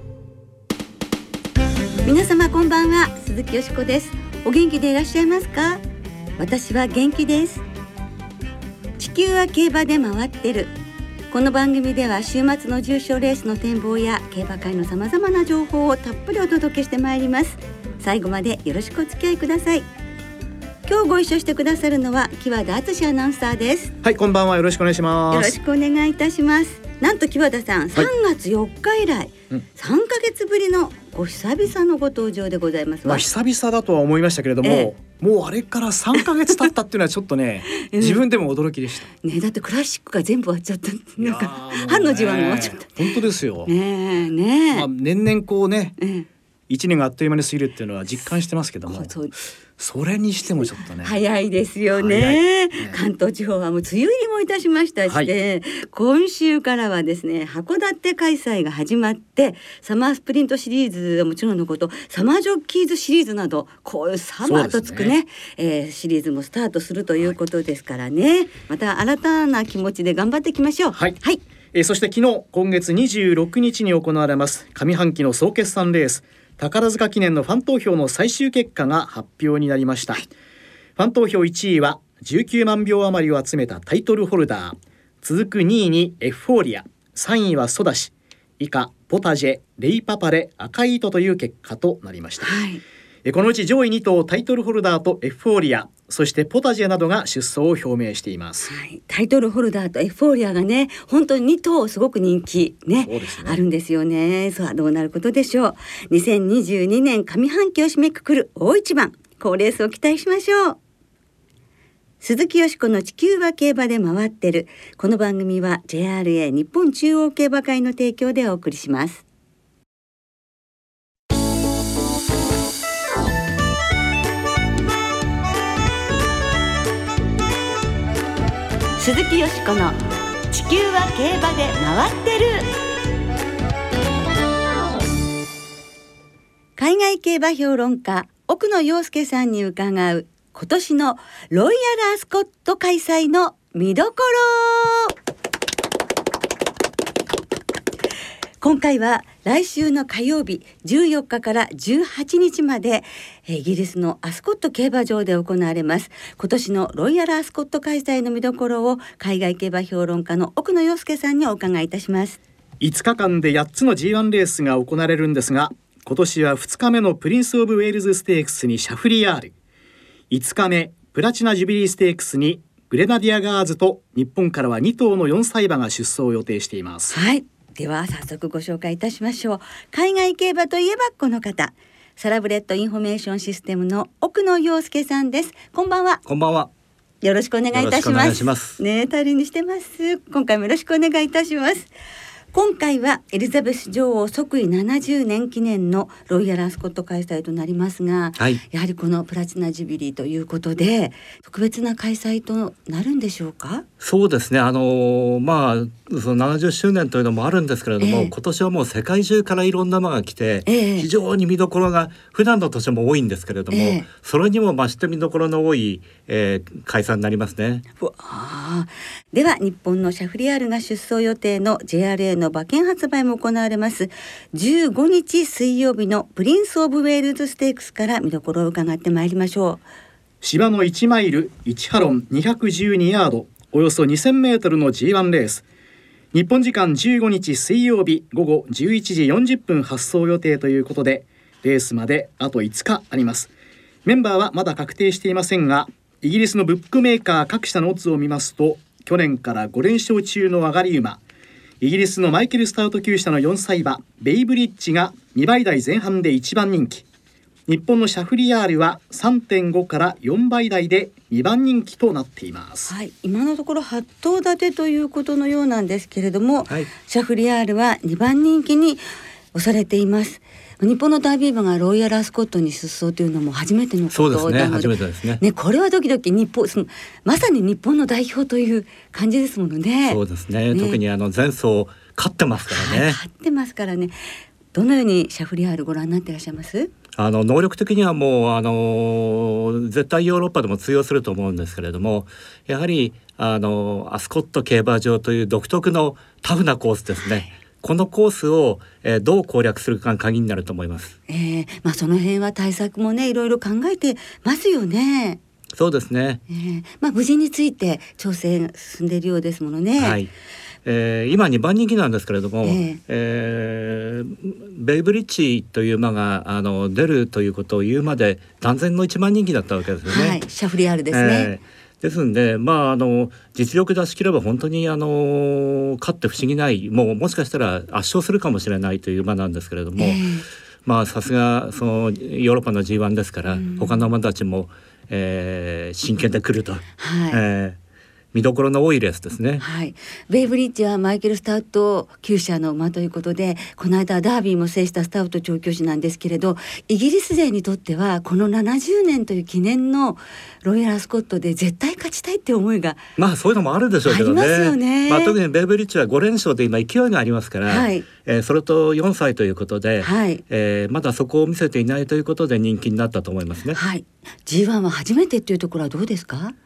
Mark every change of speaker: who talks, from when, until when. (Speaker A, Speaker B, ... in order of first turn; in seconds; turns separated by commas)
Speaker A: 2.0-5.8, Speaker A: 6.4-7.6, Speaker A: 9.0-10.7, Speaker A: 11.3-19.9, Speaker A: 20.8-23.9, Speaker B: 24.0-25.6, Speaker A: 25.3-33.2, Speaker B: 33.0-39.1, Speaker A: 34.6-34.9, Speaker A: 37.7-38.2, Speaker A: 39.2-44.9, Speaker B: 41.2-43.7, Speaker B: 44.7-46.0, Speaker A: 46.0-46.3, Speaker B: 46.7-49.1, Speaker A: 48.9-49.3, Speaker B: 49.8-51.2, Speaker A: 51.0-71.4, Speaker B: 51.9-53.0, Speaker B: 55.1-55.3, Speaker B: 64.4-65.1, Speaker B: 71.7-80.2, Speaker B: 81.0-92.6, Speaker A: 92.4-92.8, Speaker B: 93.2-98.7, Speaker A: 98.7-110.8, Speaker B: 103.0-103.6, Speaker A: 112.2-119.2, Speaker A: 129.0-130.0, Speaker A: 130.5-132.7, Speaker A: 136.8-145.1, Speaker A: 148.6-162.4, Speaker B: 162.8-169.5, Speaker B: 170.3-177.2, Speaker A: 177.1-186.2, Speaker C: 186.2-186.7, Speaker A: 187.2-191.9, Speaker C: 187.7-188.8, Speaker A: 192.5-203.8, Speaker C: 204.0-217.8, Speaker A: 208.0-208.3, Speaker A: 210.7-211.1, Speaker A: 213.7-214.0, Speaker A: 218.0-229.8, Speaker B: 230.4-235.6, Speaker B: 236.3-243.5, Speaker B: 244.0-251.2, Speaker B: 251.8-257.0, Speaker B: 257.7-262.9, Speaker A: 262.9-269.0, Speaker A: 269.5-280.2, Speaker C: 274.1-275.4, Speaker C: 280.1-283.2, Speaker A: 280.7-281.0, Speaker A: 282.7-284.1, Speaker A: 284.7-286.9, Speaker C: 287.1-301.1, Speaker A: 297.2-297.5, Speaker A: 301.3-305.4, Speaker C: 305.8-306.4, Speaker A: 306.5-310.2, Speaker C: 310.0-310.3, Speaker C: 310.8-320.4, Speaker A: 312.6-313.0, Speaker A: 320.1-321.5, Speaker C: 321.1-330.2, Speaker A: 330.0-330.4, Speaker C: 330.9-337.8, Speaker A: 333.5-334.0, Speaker A: 337.0-337.4, Speaker C: 338.3-339.6, Speaker A: 339.6-353.0, Speaker C: 353.2-363.8, Speaker A: 354.0-355.4, Speaker A: 357.7-358.1, Speaker A: 360.0-360.4, Speaker A: 363.7-366.5